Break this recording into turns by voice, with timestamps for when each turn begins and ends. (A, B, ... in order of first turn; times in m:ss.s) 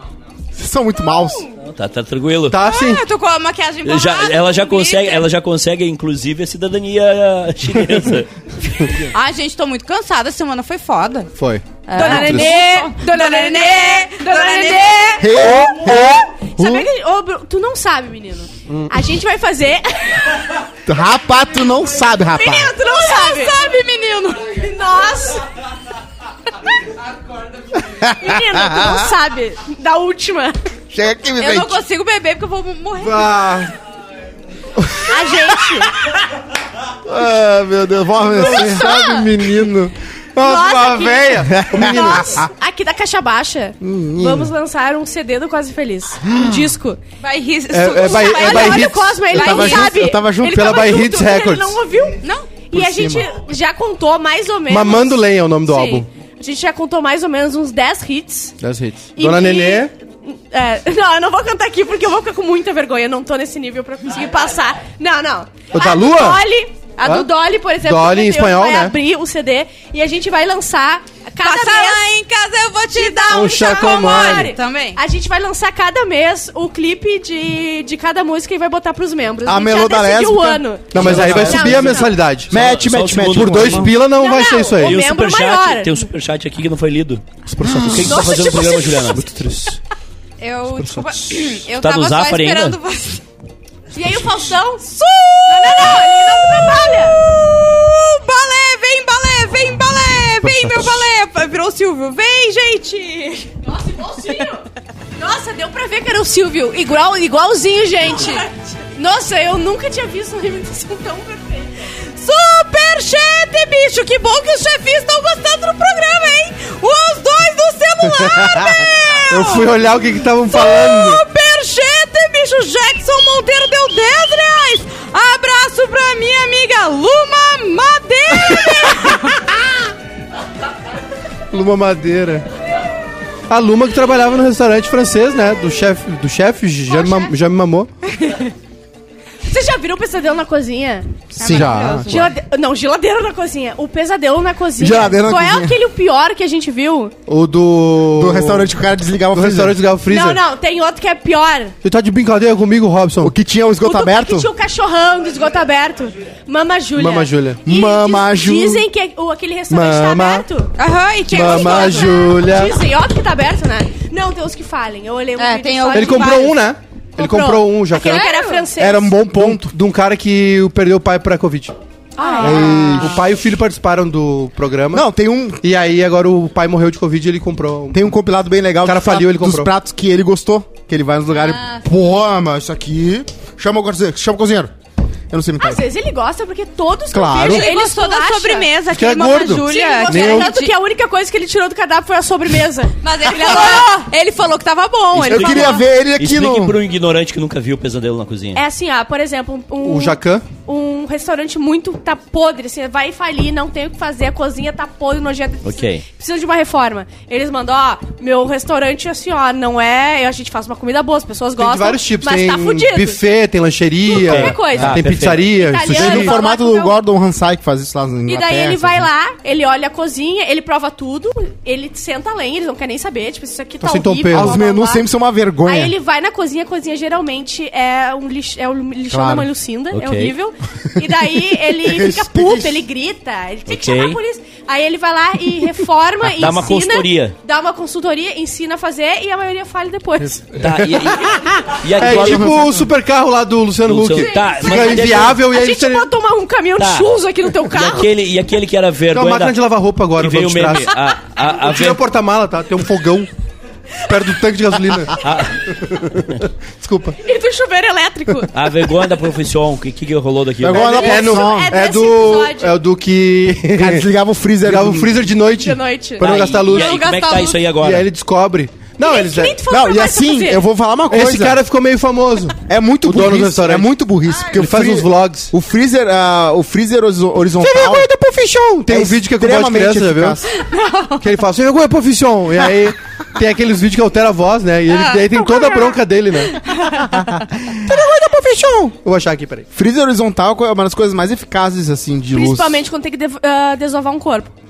0:00.6-0:01.5 A
0:01.6-0:02.6 B
0:02.5-0:03.1 C
0:02.6-0:05.3 D
0:03.8-0:09.1 B
0:09.0-0:11.3 D
0:11.4-0:12.6 C
0:11.9-0:15.3 D
0:11.9-0:15.5 E
0:15.2-0:16.9 A
0:16.5-0:20.4 E
0:20.9-0:22.7 A
0:22.4-0:23.6 E
0:22.4-0:24.4 D
0:24.5-0:25.4 E
0:27.9-0:29.1 A
0:28.2-0:30.6 E
0:30.9-0:31.8 A
0:31.4-0:33.4 D
0:33.0-0:33.7 C
0:34.8-0:35.1 C
0:35.1-0:35.9 E
0:37.0-0:39.7 A
0:38.3-0:39.3 E
0:38.3-0:42.4 C
0:40.4-0:47.0 E
0:41.5-0:42.5 A
0:43.8-0:44.5 A
0:46.2-0:46.7 A
0:47.2-0:49.0 D
0:47.7-0:49.9 C
0:48.0-0:58.6 E
0:49.3-0:51.1 A
0:50.4-0:51.8 C
0:52.2-0:52.5 D
0:52.7-0:53.3 A
0:54.7-0:56.1 C
0:58.6-0:59.9 C
0:59.2-1:12.1 E
1:05.7-1:06.4 C
1:07.0-1:09.0 C
1:11.4-1:15.0 D
1:12.9-1:22.1 E
1:13.3-1:14.5 C
1:19.4-1:23.9 A
1:20.9-1:22.5 C
1:22.5-1:23.9 B
1:23.4-1:25.0 C
1:24.0-1:26.1 E
1:24.8-1:29.2 B
1:27.5-1:28.5 C
1:27.6-1:28.1 A
1:28.0-1:29.2 E
1:29.1-1:29.8 C
1:30.4-1:33.2 D
1:30.7-1:31.3 C
1:31.8-1:32.8 B
1:33.9-1:34.9 E
1:34.8-1:43.5 D
1:35.5-1:37.2 E
1:40.4-1:41.0 C
1:43.6-1:44.6 E
1:45.2-1:51.7 E
1:52.2-1:59.8 D
1:58.2-1:58.8 C
1:59.3-2:01.2 C
2:00.5-2:09.5 D
2:11.5-2:12.5 C
2:13.5-2:17.9 C
2:16.9-2:17.3 E
2:19.5-2:27.1 E
2:21.4-2:22.3 D
2:21.4-2:22.3 C
2:24.8-2:25.8 A
2:27.3-2:28.7 C
2:28.1-2:29.8 A
2:29.3-2:30.4 C
2:30.1-2:31.8 E
2:31.8-2:33.3 C
2:33.2-2:34.5 A
2:33.8-2:40.7 E
2:37.0-2:37.6 C
2:37.6-2:38.9 A
2:39.7-2:40.5 C
2:40.8-2:42.2 D
2:41.3-2:46.5 E
2:41.3-2:42.8 C
2:45.4-2:46.6 D
2:45.9-2:48.3 C
2:47.2-2:49.2 E
2:48.0-2:48.7 D
2:48.8-2:49.7 A
2:49.3-2:51.8 C
2:52.2-2:53.2 E
2:52.2-2:53.1 D
2:52.4-2:55.1 C
2:52.4-2:53.2 A
2:54.9-2:55.6 A
2:55.6-2:58.1 C
2:57.9-3:04.7 A
2:58.8-2:59.7 C
3:05.3-3:05.8 A
3:05.6-3:08.7 E
3:07.1-3:07.7 A
3:07.4-3:10.8 D
3:08.9-3:10.5 C
3:09.6-3:14.1 E
3:13.0-3:15.8 D
3:15.2-3:18.6 B
3:15.3-3:16.8 A
3:18.6-3:33.2 E
3:19.8-3:20.4 C
3:25.6-3:26.0 B
3:31.6-3:36.4 C
3:34.1-3:37.0 E
3:34.2-3:35.6 B
3:35.9-3:39.1 A
3:38.3-3:45.1 E
3:43.8-3:44.6 C
3:44.3-3:46.0 A
3:45.6-4:00.5 E
3:49.1-3:49.5 A
3:49.9-3:50.4 B
3:51.6-3:52.8 A
3:53.7-3:54.2 B
3:56.4-3:57.4 B
4:00.6-4:02.6 B
4:00.7-4:06.1 C
4:02.0-4:02.6 A
4:03.8-4:05.4 B
4:04.2-4:08.1 E
4:06.8-4:07.1 B
4:07.7-4:12.0 B
4:09.1-4:13.3 C
4:14.1-4:15.2 C
4:15.2-4:15.7 B
4:15.9-4:17.2 C
4:17.2-4:18.5 E
4:18.5-4:21.0 B
4:20.6-4:21.8 A
4:20.7-4:22.8 E
4:20.9-4:24.1 C
4:23.7-4:25.3 A
4:24.6-4:27.1 C
4:25.5-4:26.6 E
4:26.2-4:28.1 B
4:26.8-4:27.6 D
4:27.7-4:29.6 C
4:29.0-4:30.7 E
4:29.7-4:31.6 A
4:31.1-4:33.9 C
4:32.7-4:38.1 A
4:34.5-4:35.5 C
4:37.6-4:40.4 C
4:38.9-4:40.5 A
4:40.8-4:41.2 D
4:41.2-4:46.6 C
4:45.0-4:45.7 D
4:47.8-4:49.7 C
4:49.7-4:52.8 A
4:52.3-4:54.5 E